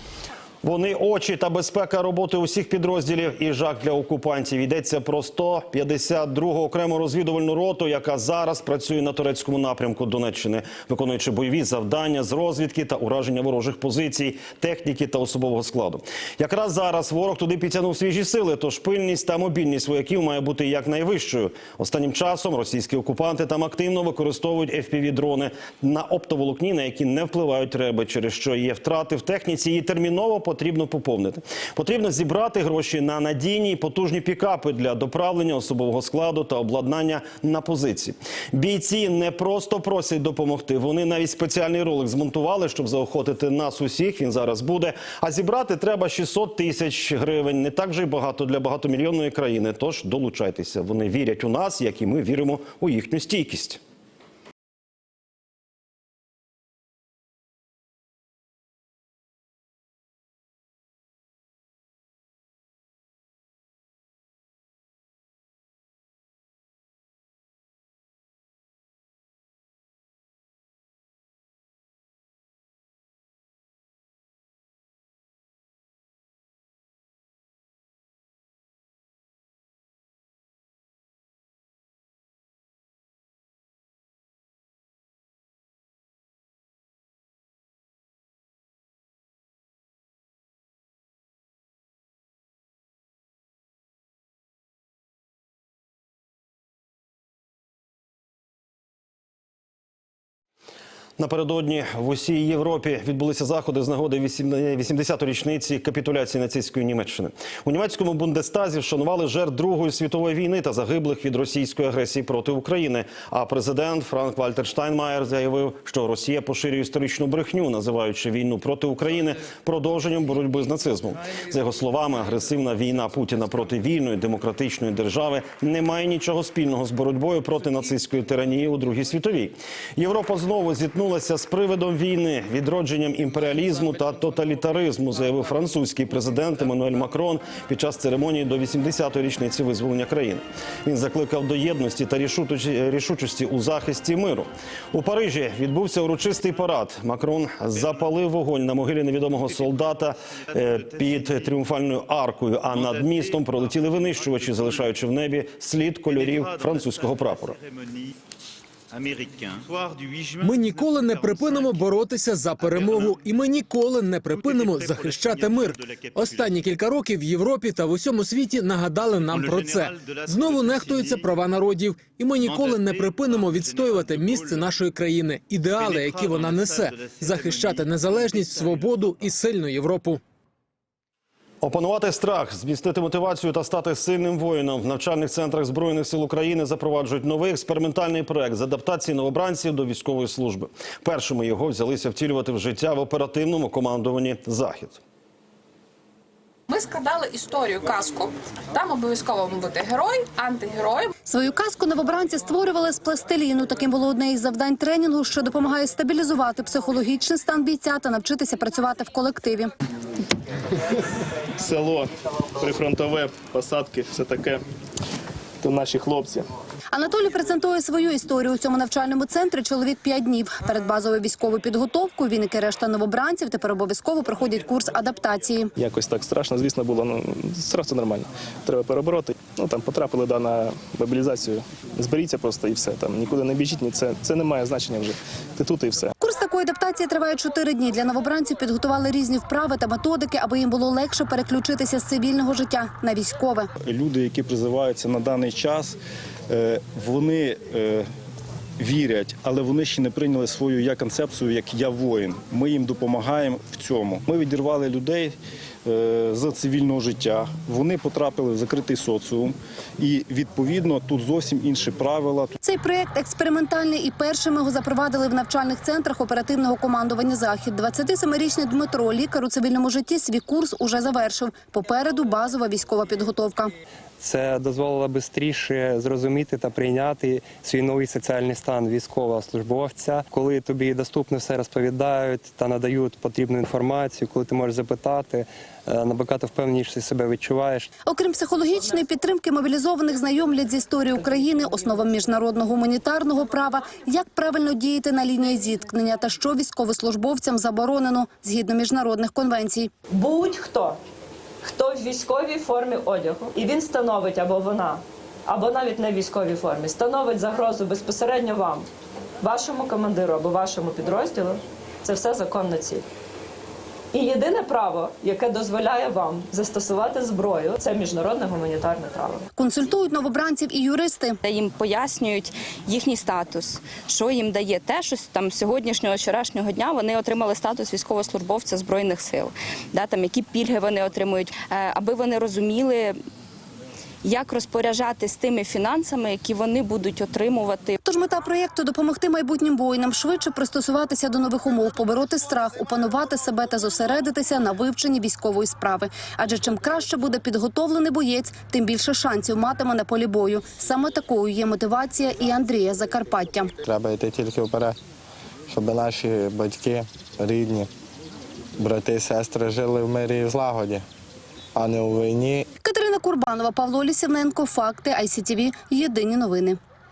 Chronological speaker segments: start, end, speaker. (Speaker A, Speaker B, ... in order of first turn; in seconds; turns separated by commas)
Speaker A: 0.6-53.8, Speaker A: 101.2-157.6, Speaker B: 160.4-180.2, Speaker A: 181.6-195.0, Speaker C: 196.7-201.1, Speaker D: 201.2-209.7, Speaker E: 211.6-214.6, Speaker E: 215.6-216.4, Speaker D: 216.9-225.7, Speaker E: 225.8-236.1, Speaker D: 236.2-243.7, Speaker F: 243.8-246.0, Speaker F: 246.5-248.1, Speaker F: 248.8-262.5, Speaker D: 262.6-273.7, Speaker G: 274.2-287.8, Speaker D: 288.1-299.9, Speaker H: 300.1-301.0, Speaker H: 301.6-308.9, Speaker H: 309.4-313.0, Speaker H: 314.1-319.4, Speaker D: 319.6-321.4, Speaker I: 321.4-333.2, Speaker I: 334.2-338.0, Speaker D: 338.0-353.7, Speaker J: 353.8-354.9, Speaker J: 355.7-357.9, Speaker J: 358.8-361.0, Speaker J: 361.8-362.6, Speaker D: 362.8-366.8